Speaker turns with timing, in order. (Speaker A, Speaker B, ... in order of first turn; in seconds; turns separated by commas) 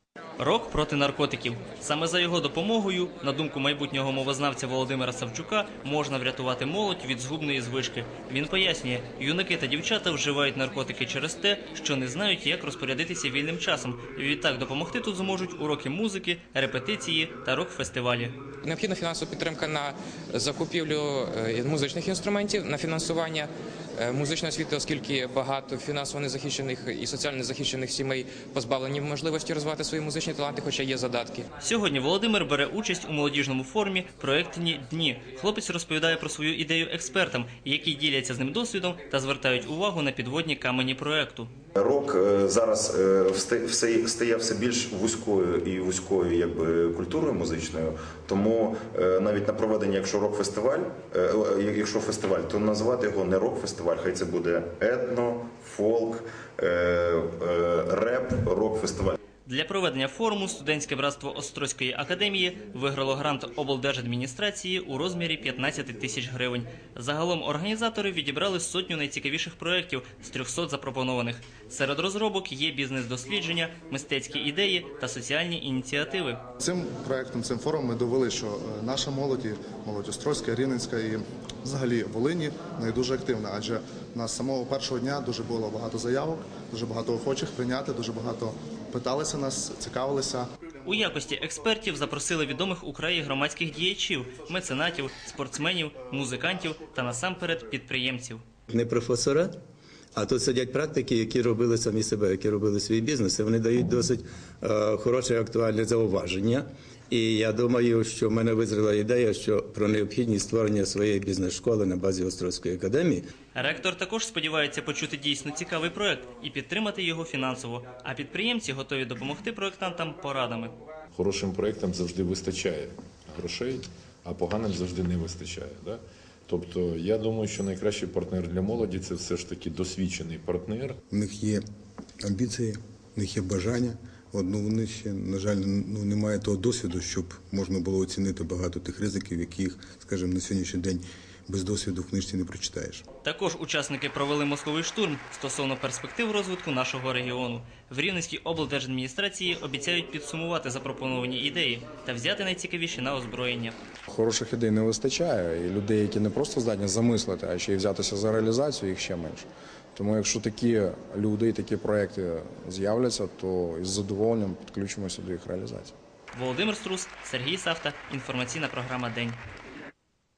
Speaker A: 0.4-18.4, Speaker B: 18.6-31.5, Speaker A: 31.6-41.5, Speaker C: 41.8-59.2, Speaker A: 59.5-76.4, Speaker D: 76.6-90.5, Speaker A: 90.9-98.4, Speaker E: 98.7-99.5, Speaker E: 100.2-113.2, Speaker A: 113.5-120.8, Speaker F: 121.2-131.0, Speaker G: 131.1-131.6, Speaker G: 132.2-143.1, Speaker A: 143.2-153.7, Speaker H: 154.1-165.9, Speaker A: 166.3-169.4